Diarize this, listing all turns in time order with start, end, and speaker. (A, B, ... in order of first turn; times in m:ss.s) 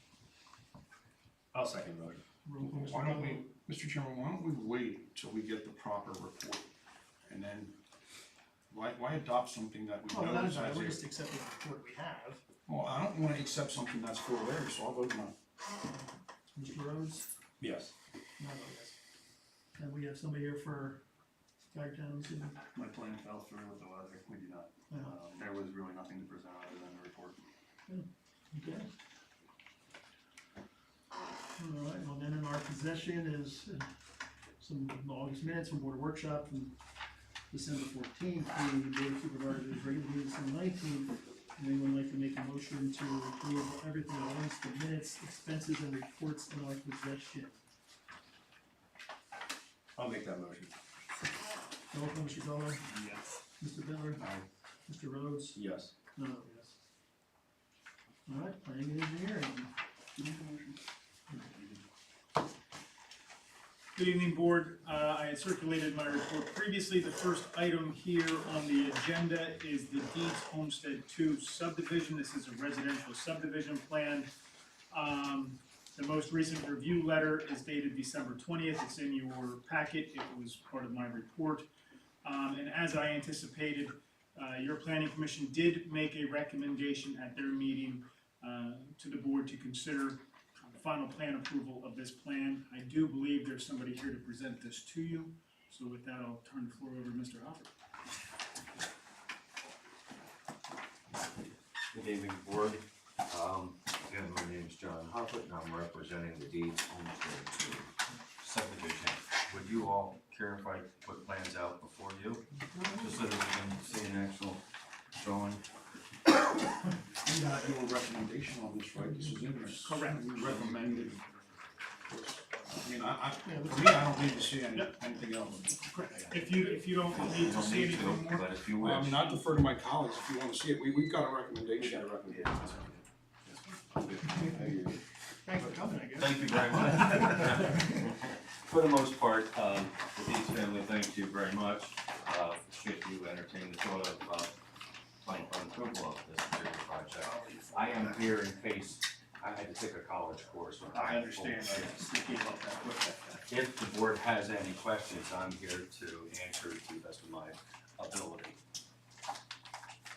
0:01.5-0:02.2 A
0:02.4-0:03.5 B
0:02.6-0:06.7 C
0:07.2-0:07.8 C
0:08.7-0:11.0 C
0:10.1-0:12.4 B
0:12.7-0:15.3 C
0:16.5-0:17.3 B
0:17.6-0:17.9 A
0:18.4-0:19.0 B
0:19.8-0:21.0 B
0:21.6-0:22.6 B
0:22.8-0:24.7 D
0:24.9-0:25.2 B
0:25.0-0:25.5 A
0:25.4-0:27.4 D
0:27.9-0:28.9 B
0:31.6-0:33.9 B
0:34.6-0:36.8 B
0:37.5-0:47.6 B
0:50.0-0:50.7 A
0:51.9-0:52.9 B
0:53.6-0:54.2 B
0:54.8-0:55.6 B
0:55.5-0:55.9 A
0:56.1-0:56.7 B
0:58.3-0:59.7 B
1:00.2-1:00.7 A
1:03.9-1:14.3 E
1:14.9-1:21.7 E
1:22.2-1:37.7 E
1:41.9-1:54.6 F
1:52.7-1:53.0 B
1:55.2-1:55.6 F
1:57.2-2:01.2 C
1:59.8-2:00.3 E
2:00.0-2:01.4 D
2:02.1-2:05.7 C
2:03.4-2:04.0 B
2:05.7-2:08.5 E
2:07.1-2:09.3 F
2:08.8-2:12.1 C
2:11.8-2:13.0 A
2:13.9-2:15.0 A
2:15.4-2:17.4 B
2:16.2-2:24.6 F
2:25.2-2:32.0 F
2:27.2-2:28.2 C
2:30.9-2:33.4 C
2:33.4-2:38.6 F